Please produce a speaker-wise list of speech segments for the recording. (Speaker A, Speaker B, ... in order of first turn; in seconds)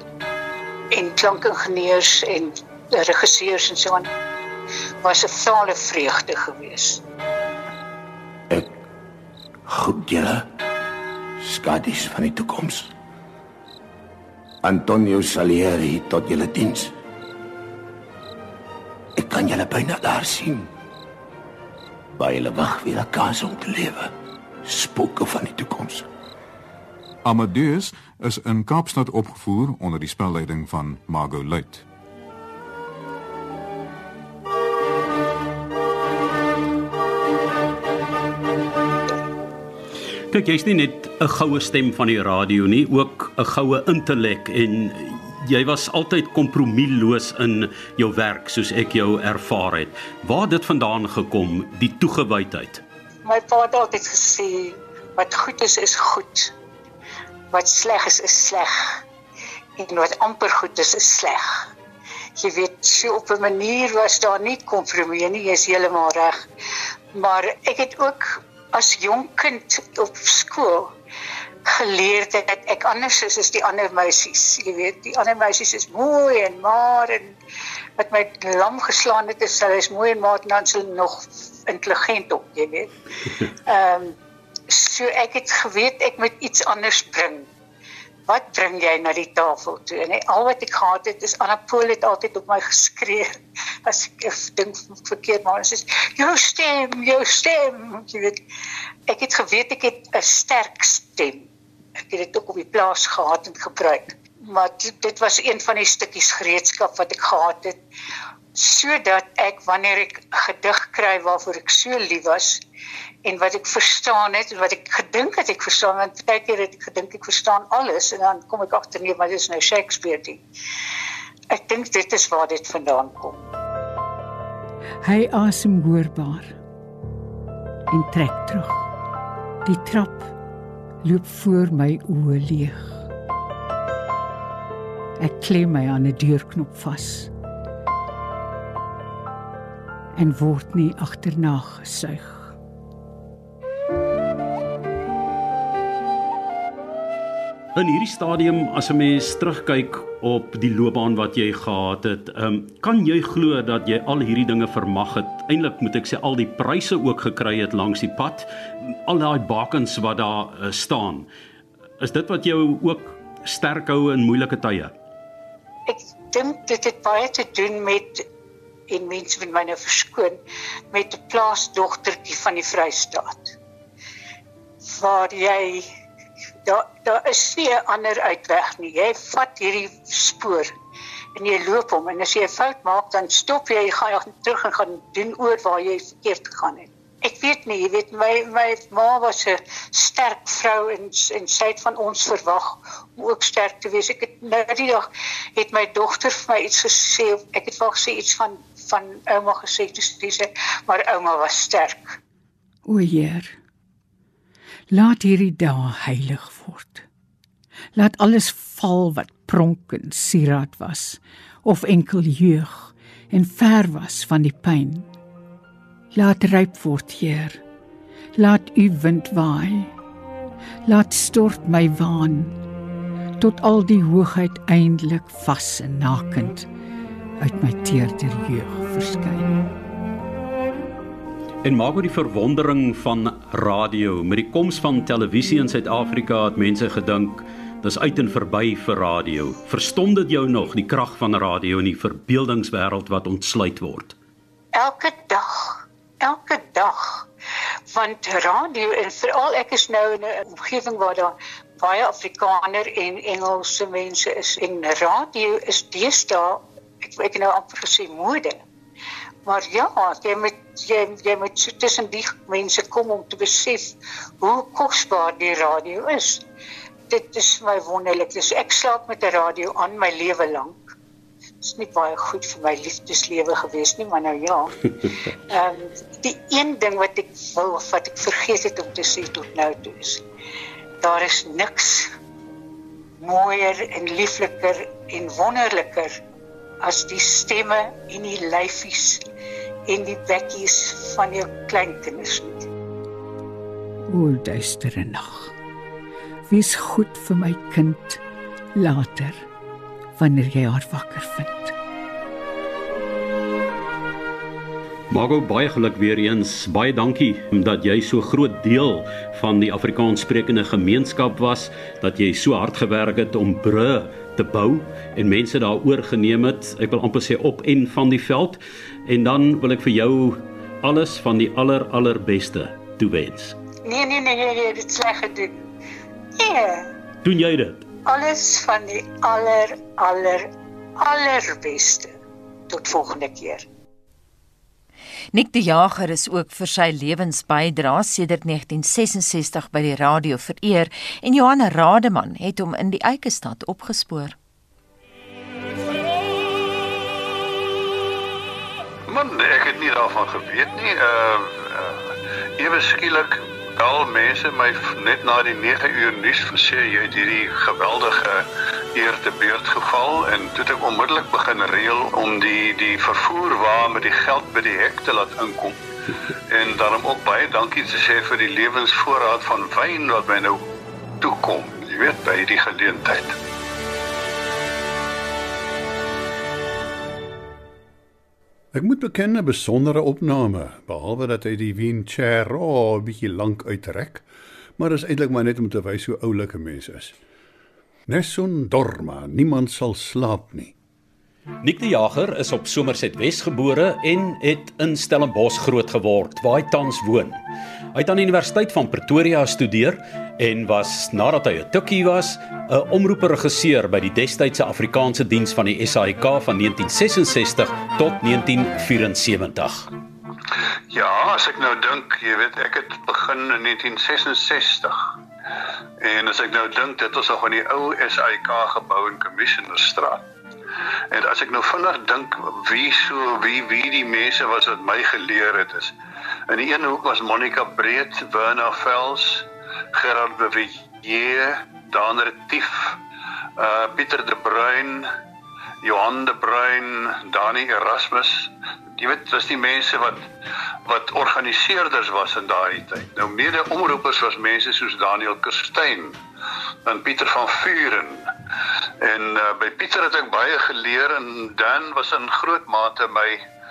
Speaker A: 0.9-4.1, 5.0-7.0, 53.2-56.5, 57.5-59.0, 59.8-61.7, 62.4-66.4, 67.1-70.9, 71.7-77.3, 78.0-82.9, 83.7-84.2, 84.7-87.5, 88.3-93.3, 93.8-98.4, 99.1-101.5, 102.1-107.8, 108.5-112.6, 113.2-120.4, 121.5-123.5, 165.9-168.2, 168.9-170.4, 170.9-173.5, 174.8-175.8, 176.7-180.7, 181.3-202.2, 244.7-247.3, 247.9-258.6, 259.4-266.4, 267.1-270.8, 271.6-274.7, 275.5-280.2, 281.0-282.1, 283.2-286.1, 286.8-289.2, 289.9-292.7, 323.8-325.6, 326.4-326.9, 328.1-332.1, 332.7-333.6
Speaker B: 9.7-10.4, 11.4-12.9, 14.6-16.9, 19.2-20.7, 22.2-24.1, 24.6-26.0
Speaker C: 27.2-31.8
Speaker D: 40.3-52.8, 147.8-158.5, 159.1-161.3, 162.0-164.9, 231.6-244.1, 305.1-323.6, 327.2-327.8, 391.6-397.4, 397.9-409.9
Speaker E: 125.0-126.5, 127.9-128.9, 129.6-130.3, 131.0-133.1, 135.2-137.3, 140.2-142.5, 202.8-203.6, 204.9-207.1, 207.9-215.1, 216.1-217.6, 218.3-219.9, 220.8-222.6, 223.4-226.7, 227.4-229.6, 294.1-295.5, 296.5-298.2, 298.7-299.5, 300.1-301.7
Speaker F: 335.3-344.4
Speaker G: 349.1-365.8, 366.5-370.6, 371.2-373.3, 410.9-415.1, 416.0-420.2, 421.1-425.9, 426.5-433.0, 433.6-435.1, 435.8-440.3, 440.9-446.2, 446.9-448.3, 449.0-453.4
Speaker H: 378.7-384.2, 384.8-387.1, 388.1-390.7